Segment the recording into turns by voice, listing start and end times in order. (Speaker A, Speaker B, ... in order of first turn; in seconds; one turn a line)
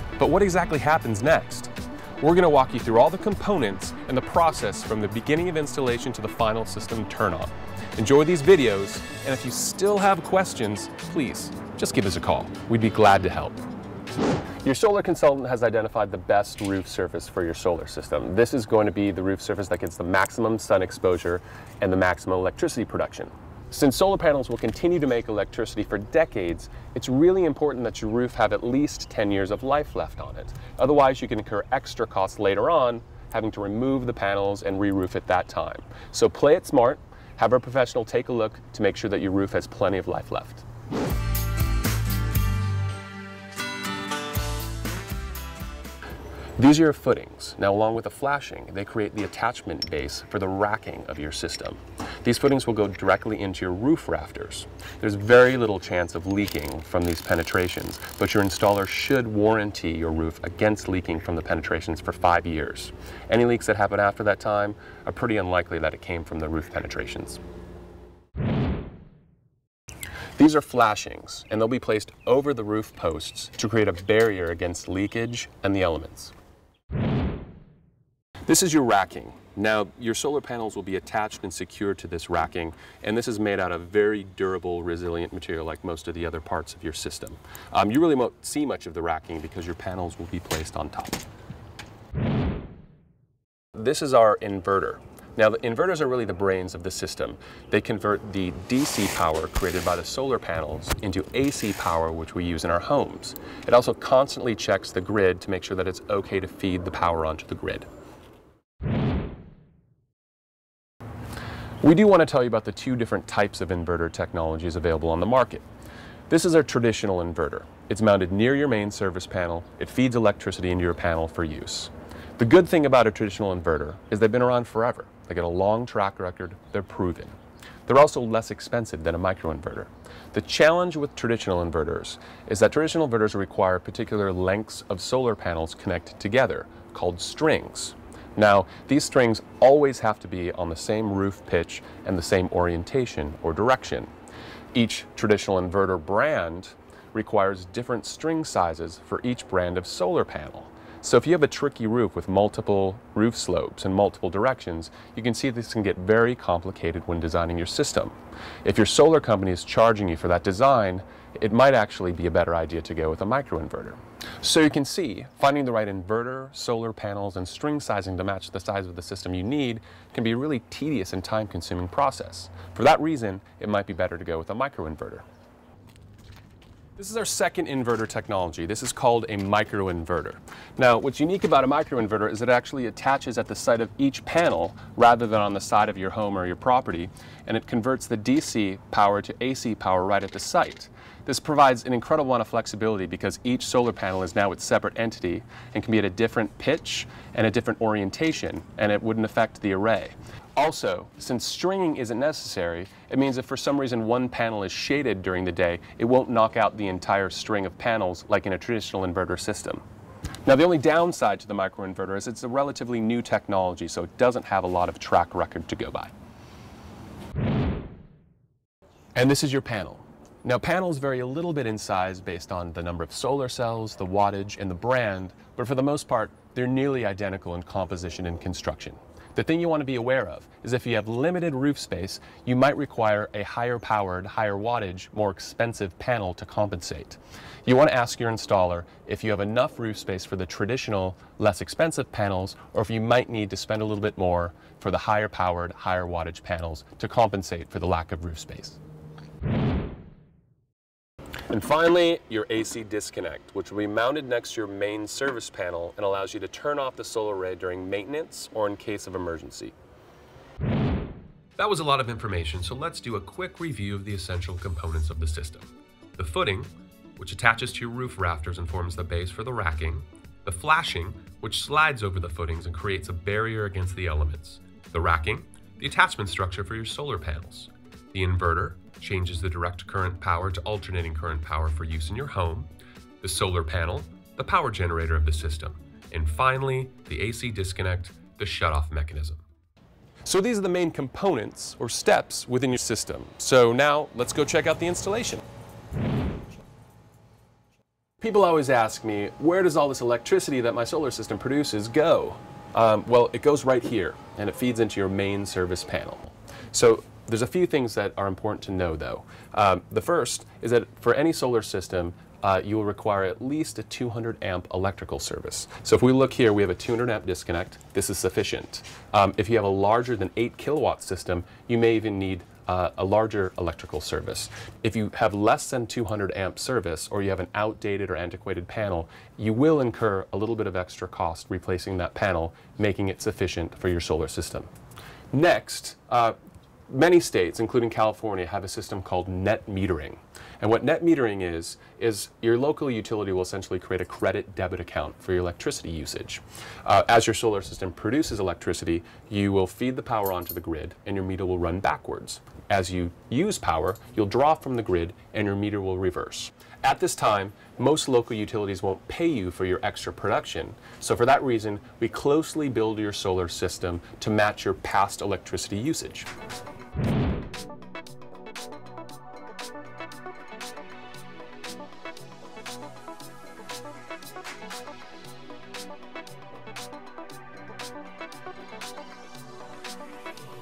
Speaker A: 0.2-13.6
Speaker A: 14.6-40.6
Speaker A: 46.6-67.4
Speaker A: 70.4-76.3
Speaker A: 78.5-91.2
Speaker A: 93.7-107.8
Speaker A: 111.8-115.6
Speaker A: 116.3-127.3
Speaker A: 127.9-144.1
Speaker A: 144.7-175.2
Speaker A: 177.0-209.8
Speaker A: 210.4-216.1
Speaker A: 219.2-248.8
Speaker A: 251.5-259.7
Speaker A: 261.6-282.7
Speaker A: 283.2-289.4
Speaker A: 290.2-295.4
Speaker A: 298.2-334.7
Speaker A: 335.3-336.4
Speaker A: 336.9-366.3